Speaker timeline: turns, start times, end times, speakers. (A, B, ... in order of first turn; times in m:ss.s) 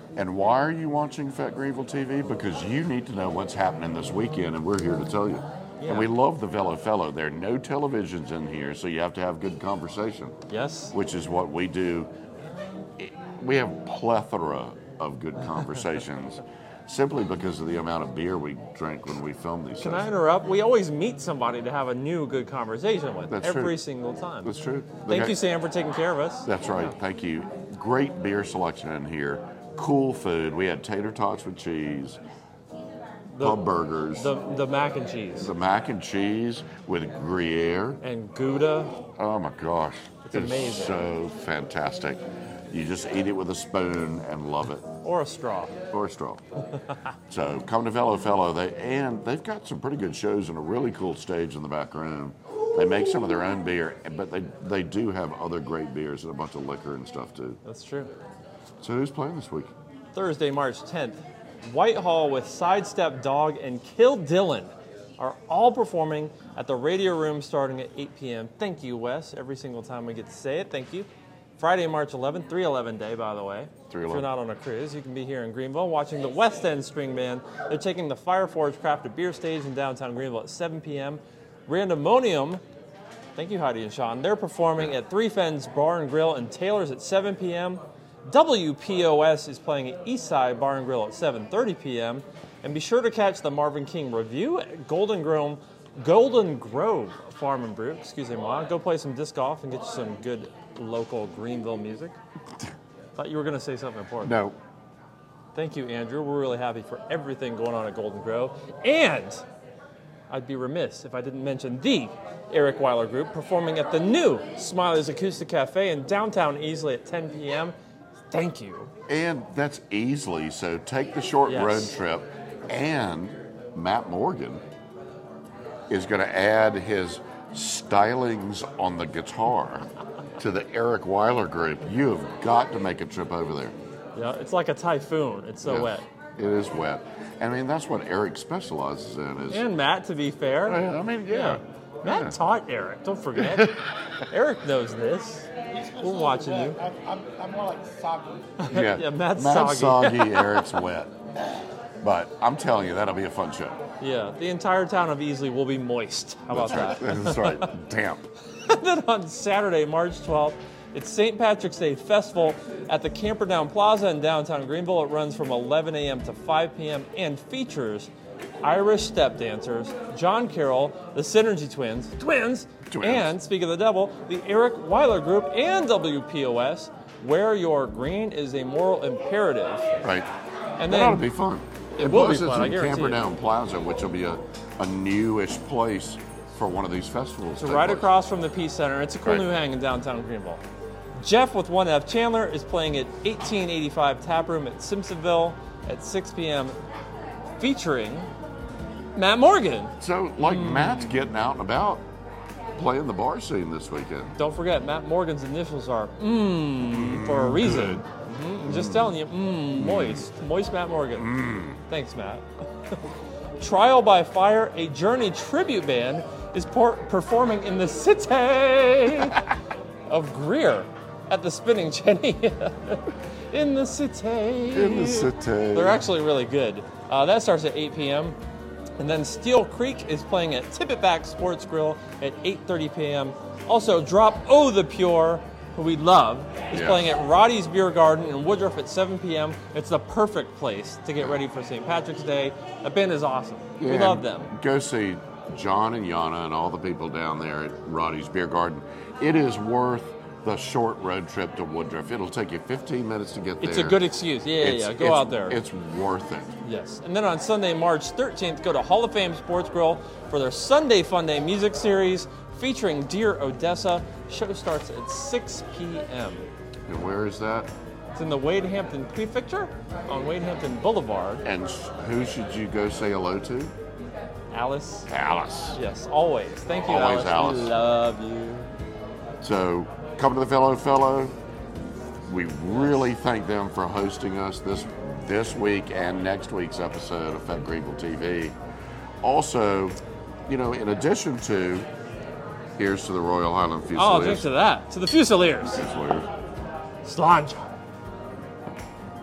0:00.2-0:10.4 A
0:05.8-0:06.1 B
0:10.5-0:11.0 B
0:10.9-0:12.1 A
0:13.0-0:20.1 A
0:19.8-0:24.5 B
0:23.3-0:23.8 A
0:24.4-0:25.4 A
0:25.1-0:26.5 B
0:26.5-0:32.2 A
0:33.3-0:35.5 B
0:33.4-0:34.3 A
0:35.4-0:38.0 A
0:38.0-0:38.9 B
0:39.2-0:44.9 A
0:40.2-0:41.0 B
0:45.0-0:45.7 B
0:45.9-0:46.4 A
0:47.3-0:57.6 A
0:57.6-0:58.1 B
0:58.8-0:59.7 A
1:00.1-1:11.1 B
1:11.6-1:22.6 B
1:13.9-1:14.3 A
1:23.4-1:42.2 B
1:43.2-1:44.4 B
1:44.2-1:44.6 A
1:45.6-1:49.4 B
1:50.3-1:57.7 B
1:58.3-1:58.9 B
1:59.1-2:04.6 A
2:01.5-2:01.9 B
2:05.9-2:09.9 A
2:10.4-2:13.8 A
2:14.2-2:16.1 B
2:15.6-2:19.7 A
2:19.5-2:26.9 B
2:20.6-2:22.4 A
2:26.5-2:28.6 C
2:28.6-2:30.6 B
2:28.7-2:31.2 A
2:32.0-2:33.8 A
2:34.0-2:37.7 B
2:36.5-2:38.3 A
2:38.5-2:48.1 B
2:48.6-2:59.9 B
2:52.9-2:53.4 A
3:00.0-3:00.3 A
3:00.8-3:01.3 B
3:00.9-3:08.1 A
3:02.0-3:03.2 B
3:07.6-3:10.6 B
3:11.2-3:16.8 B
3:17.6-3:18.3 B
3:19.2-3:19.9 B
3:20.0-3:22.0 A
3:20.4-3:21.2 B
3:22.8-3:24.4 A
3:24.4-3:33.0 B
3:26.8-3:28.1 A
3:28.7-3:29.2 A
3:29.8-3:30.2 A
3:31.2-3:31.8 A
3:33.6-3:39.5 B
3:40.1-3:48.4 B
3:44.7-3:46.0 A
3:49.0-4:04.5 B
3:56.7-3:57.1 A
4:03.8-4:16.6 A
4:13.6-4:15.6 B
4:16.6-4:26.5 B
4:26.9-4:27.7 A
4:28.1-4:31.4 B
4:31.4-4:33.7 A
4:34.5-4:35.1 B
4:35.1-4:35.8 A
4:35.7-4:38.7 B
4:36.9-4:37.8 A
4:39.4-4:41.4 A
4:42.2-4:48.6 A
4:49.2-4:51.9 A
4:52.8-4:54.5 A
4:54.0-4:55.9 B
4:55.8-4:56.3 A
4:57.0-4:57.7 B